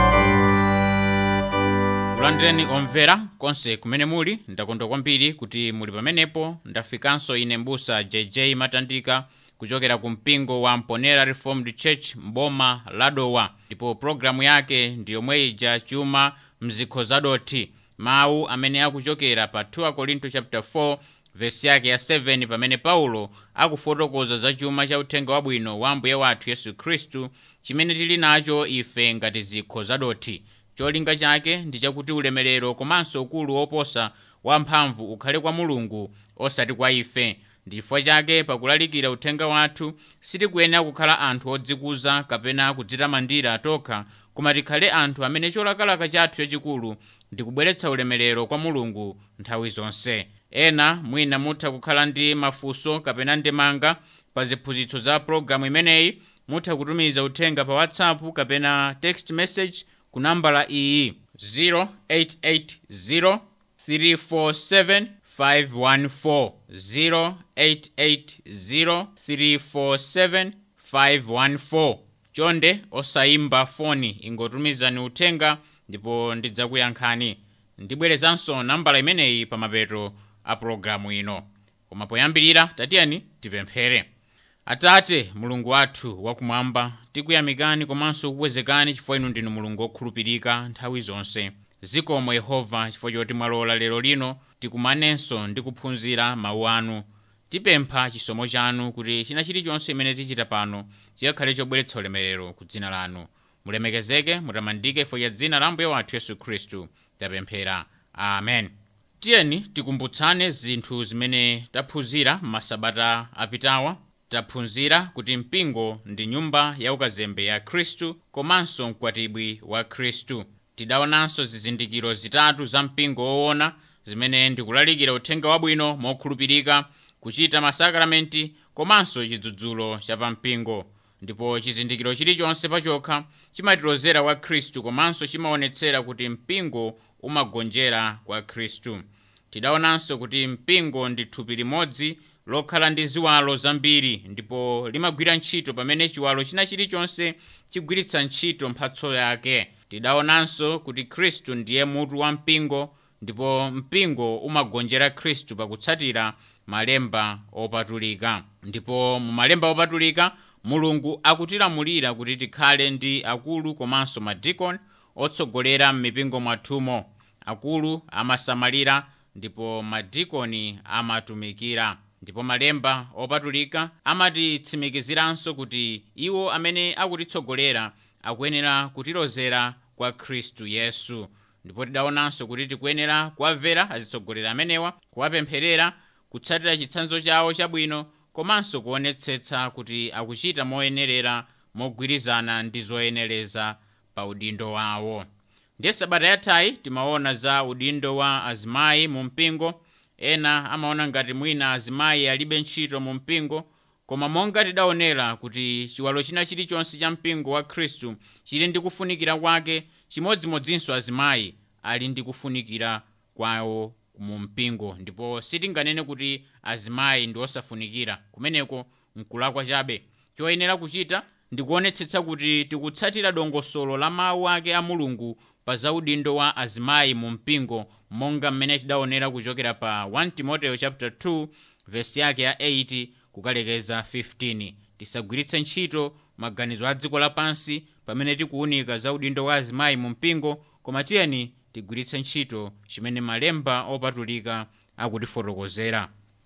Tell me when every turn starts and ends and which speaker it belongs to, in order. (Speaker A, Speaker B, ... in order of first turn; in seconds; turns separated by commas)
Speaker A: 2.1-84.1, Speaker A: 84.7-195.3, Speaker A: 195.8-246.1